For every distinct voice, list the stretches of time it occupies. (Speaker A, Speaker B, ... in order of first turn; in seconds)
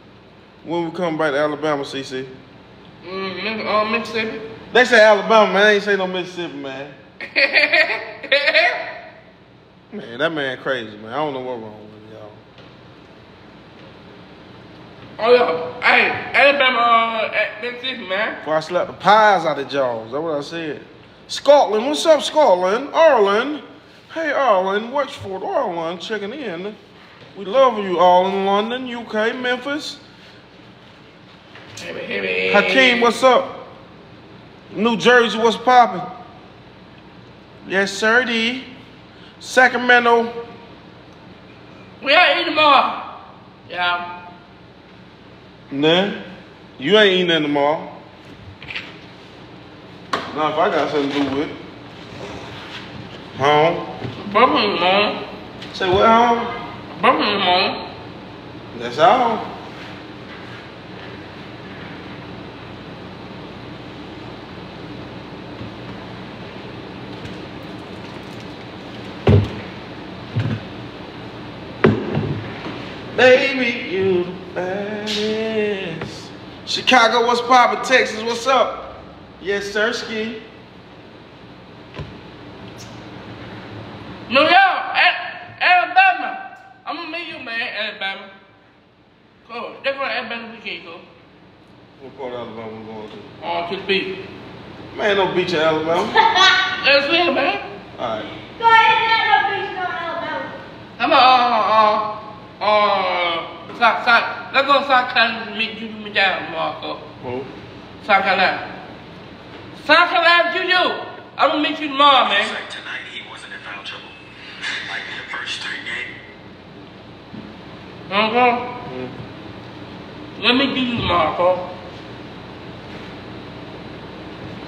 Speaker A: 0.6-2.3, 4.7-7.0, 9.9-12.4, 18.4-26.8, 27.3-30.0, 32.5-33.6, 34.7-36.1, 37.6-38.7, 39.4-40.4, 45.7-46.2, 46.8-48.0, 50.3-51.5, 53.3-53.9, 55.7-56.5, 58.7-59.5, 73.1-80.4, 92.0-93.3, 94.9-96.2, 98.0-98.3, 107.2-107.5, 118.8-119.1
Speaker B: 3.0-4.5, 7.2-8.8, 15.2-18.4, 31.8-33.2, 42.0-43.1, 43.7-44.1, 54.2-55.2, 56.9-57.8, 84.3-88.3, 89.5-91.0, 93.4-94.2, 96.8-97.6, 101.0-107.0, 108.0-108.6, 109.8-112.5, 118.1-118.7, 120.4-121.7
Speaker C: 96.2-96.6, 98.5-100.5
Speaker D: 112.2-114.1, 114.7-116.1